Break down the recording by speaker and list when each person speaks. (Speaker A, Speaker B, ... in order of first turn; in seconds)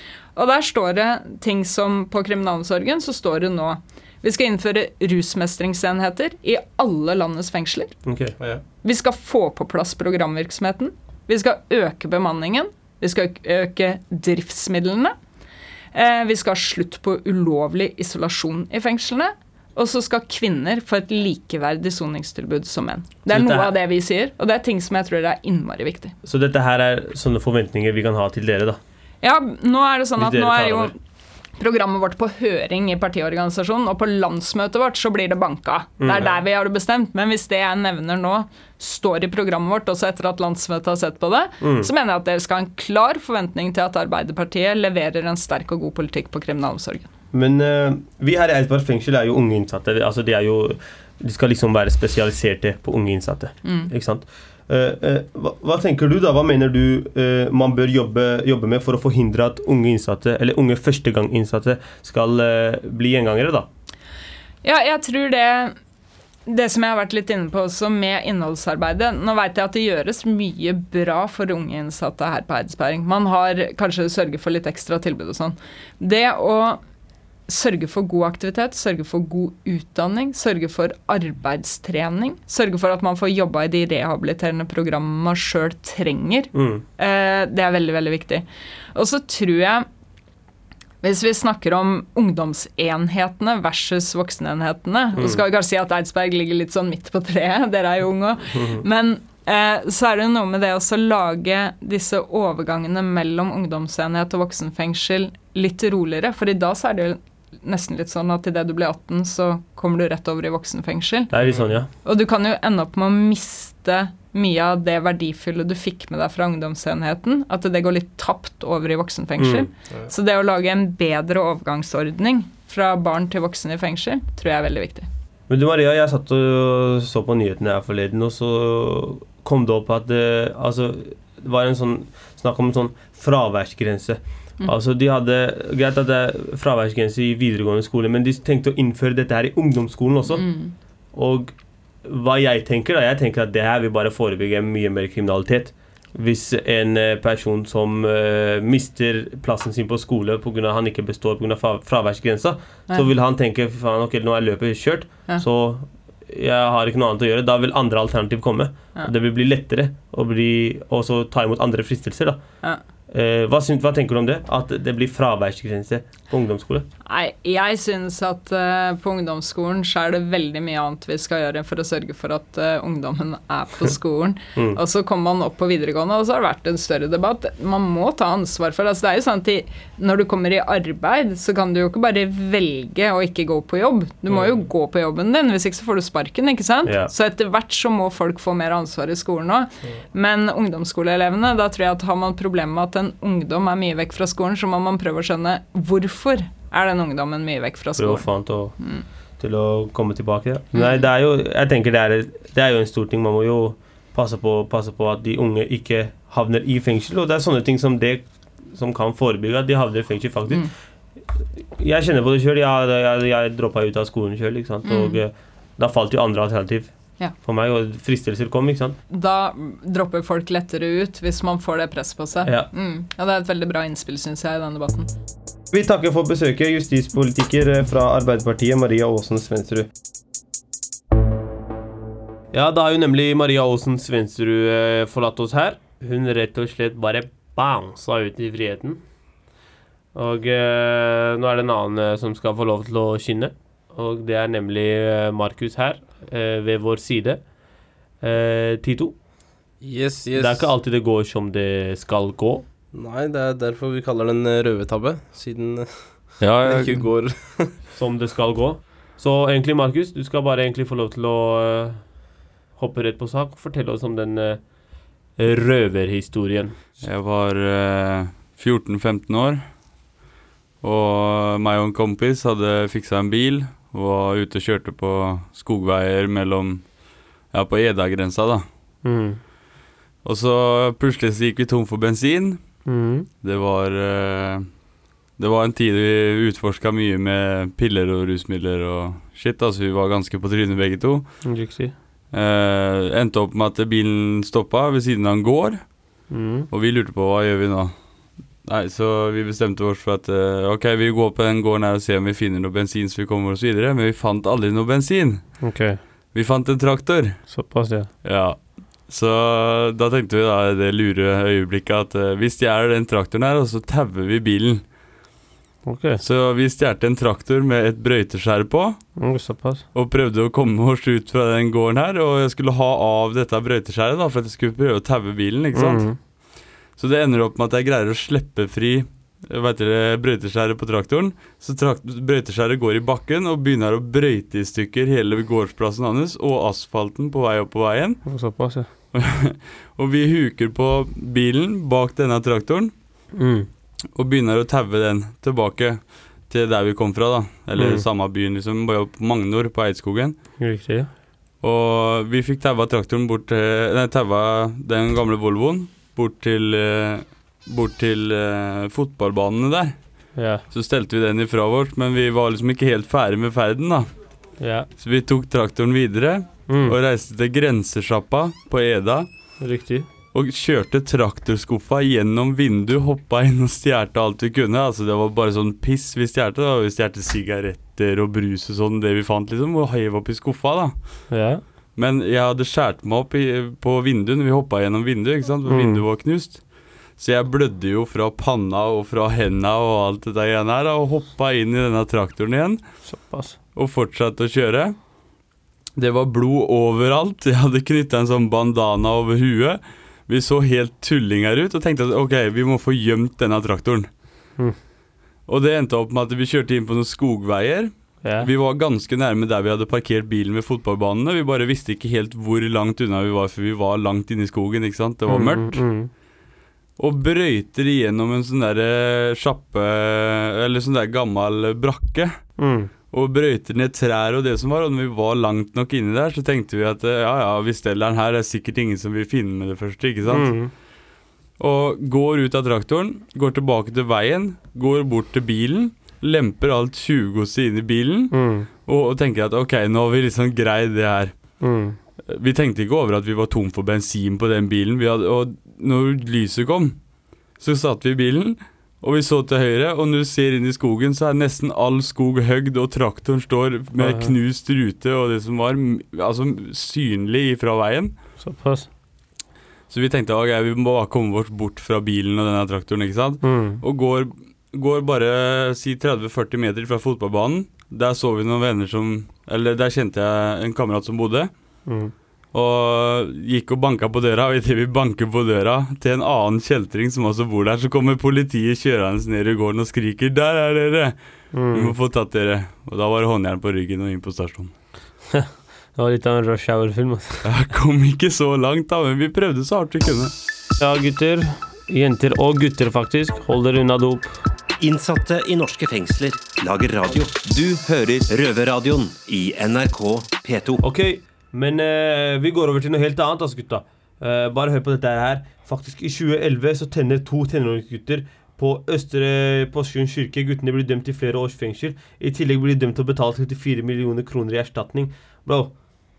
Speaker A: 0.3-7.9, 8.8-15.2, 15.9-26.1, 29.2-31.0, 31.6-47.1, 53.6-53.9, 64.6-65.8, 66.5-76.8, 77.5-89.9, 91.0-111.3, 112.0-125.1, 140.3-140.7, 167.0-199.1, 200.7-201.1, 214.8-215.2, 219.1-225.1
Speaker B: 8.1-8.3, 23.3-23.7, 26.2-28.8, 30.2-30.9, 36.0-36.3, 41.6-41.9, 47.3-63.7, 86.5-86.8, 95.2-95.4, 98.5-98.8, 111.3-111.9, 119.4-119.7, 125.5-140.4, 141.1-162.4, 163.1-166.9, 186.8-187.1, 198.0-198.8, 199.4-210.7, 211.8-219.0, 222.4-222.7, 225.7-229.9, 232.5-239.0, 240.1-247.5, 248.2-249.2, 250.3-252.6, 257.9-262.0, 262.8-264.6, 265.4-266.8, 279.0-279.4, 282.9-283.3, 291.4-291.9, 296.3-296.7, 305.6-306.0, 307.5-308.1, 315.8-316.2, 319.2-319.8, 325.7-326.2, 338.2-338.9, 343.3-343.7, 347.8-348.0, 350.6-351.1, 360.3-360.6, 364.6-364.9, 366.7-367.0, 369.6-370.1, 381.3-381.6, 385.7-386.0, 393.0-393.6, 408.2-408.5, 415.3-416.1, 422.6-422.9, 430.3-430.7, 438.3-438.7, 441.6-442.0, 454.0-454.3, 458.4-458.9, 463.4-463.8, 471.9-472.1, 481.5-481.9, 485.3-487.4, 490.8-494.4, 500.8-515.7
Speaker C: 111.5-111.8, 249.8-250.7, 252.9-257.8
Speaker D: 256.4-257.1, 267.0-269.6, 270.8-276.9, 277.5-278.6, 280.2-282.7, 283.4-284.7, 285.4-291.5, 292.3-295.9, 296.7-297.9, 298.6-305.6, 306.3-307.5, 308.2-314.9, 316.2-319.0, 319.9-326.1, 327.0-338.2, 339.1-342.9, 344.1-350.4, 351.6-360.1, 360.7-364.1, 365.0-369.3, 370.3-381.0, 382.0-393.0, 393.8-394.9, 395.9-404.1, 405.5-415.8, 417.0-422.4, 423.1-430.5, 431.6-438.3, 438.9-441.3, 442.3-446.9, 447.6-458.1, 459.9-471.5, 472.5-481.2, 481.7-484.7, 487.4-490.3
Speaker E: 494.8-500.8